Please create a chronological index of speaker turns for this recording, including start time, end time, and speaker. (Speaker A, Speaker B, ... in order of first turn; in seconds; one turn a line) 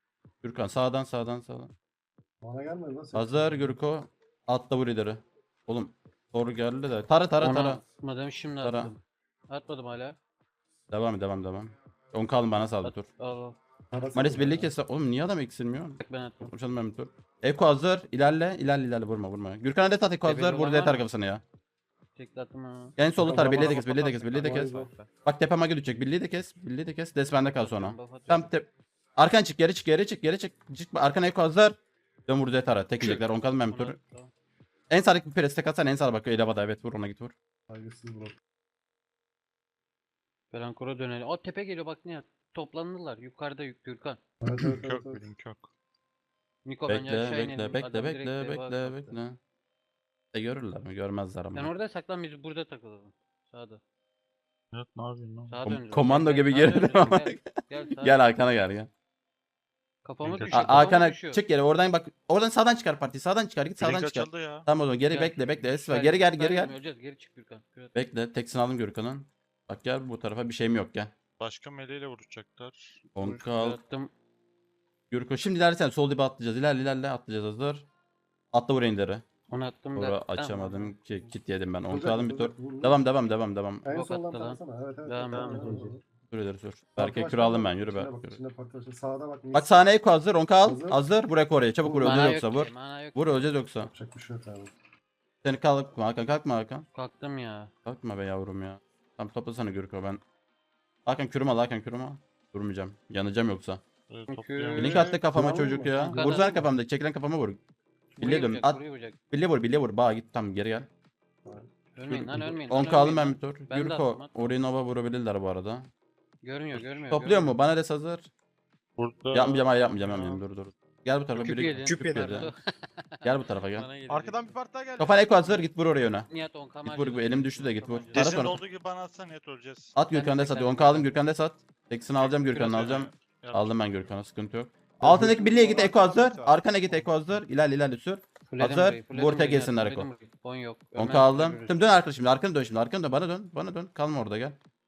Speaker A: 0.4-1.7
Speaker B: 2.4-3.8
Speaker A: 3.1-7.8
Speaker C: 7.4-10.2
Speaker A: 8.6-8.9
Speaker A: 10.9-13.1
Speaker C: 12.8-13.6
Speaker B: 13.9-14.7
Speaker A: 14.1-21.4
Speaker C: 16.0-16.5
Speaker C: 20.2-21.1
Speaker C: 22.1-22.9
Speaker A: 23.0-24.6
Speaker B: 23.2-24.9
Speaker D: 23.7-25.1
Speaker A: 25.2-28.6
Speaker C: 27.5-28.5
Speaker A: 29.2-31.8
Speaker A: 32.3-34.0
Speaker C: 33.7-34.3
Speaker A: 34.9-37.3
Speaker B: 37.7-38.3
Speaker C: 40.5-44.2
Speaker B: 44.4-45.2
Speaker E: 44.5-45.7
Speaker C: 46.6-49.2
Speaker A: 46.9-49.4
Speaker A: 50.3-51.7
Speaker C: 51.5-53.8
Speaker E: 54.7-55.5
Speaker C: 55.5-58.2
Speaker A: 55.6-58.9
Speaker C: 60.0-61.4
Speaker E: 60.2-60.9
Speaker A: 60.5-66.7
Speaker E: 63.8-64.7
Speaker C: 65.0-67.9
Speaker A: 67.9-71.1
Speaker E: 71.4-73.1
Speaker A: 73.1-73.8
Speaker C: 73.2-74.1
Speaker A: 75.1-77.8
Speaker A: 78.5-79.2
Speaker C: 79.5-80.9
Speaker A: 79.9-83.9
Speaker B: 81.9-83.0
Speaker B: 83.8-86.0
Speaker C: 83.9-85.9
Speaker D: 85.3-85.9
Speaker A: 86.3-88.4
Speaker B: 87.0-89.8
Speaker A: 89.5-93.9
Speaker B: 90.6-91.0
Speaker B: 91.8-92.2
Speaker C: 92.0-93.2
Speaker B: 93.9-94.7
Speaker A: 95.4-96.8
Speaker C: 96.9-97.7
Speaker A: 97.8-100.2
Speaker A: 101.0-103.8
Speaker E: 104.1-105.2
Speaker C: 104.3-105.0
Speaker A: 104.8-107.6
Speaker B: 105.2-106.7
Speaker C: 105.9-106.5
Speaker C: 108.1-109.2
Speaker A: 108.2-108.8
Speaker A: 109.3-110.9
Speaker C: 111.9-114.5
Speaker A: 112.1-115.9
Speaker C: 116.4-117.5
Speaker A: 116.7-118.3
Speaker E: 119.0-120.4
Speaker A: 119.3-122.5
Speaker C: 121.4-124.5
Speaker D: 121.9-122.4
Speaker A: 123.2-123.9
Speaker D: 124.1-125.2
Speaker A: 125.0-126.3
Speaker C: 126.3-128.5
Speaker A: 126.8-128.6
Speaker E: 128.1-129.9
Speaker A: 129.9-140.1
Speaker C: 130.1-131.1
Speaker E: 132.2-133.8
Speaker B: 135.0-135.5
Speaker D: 135.4-137.0
Speaker C: 138.5-141.8
Speaker A: 140.9-144.6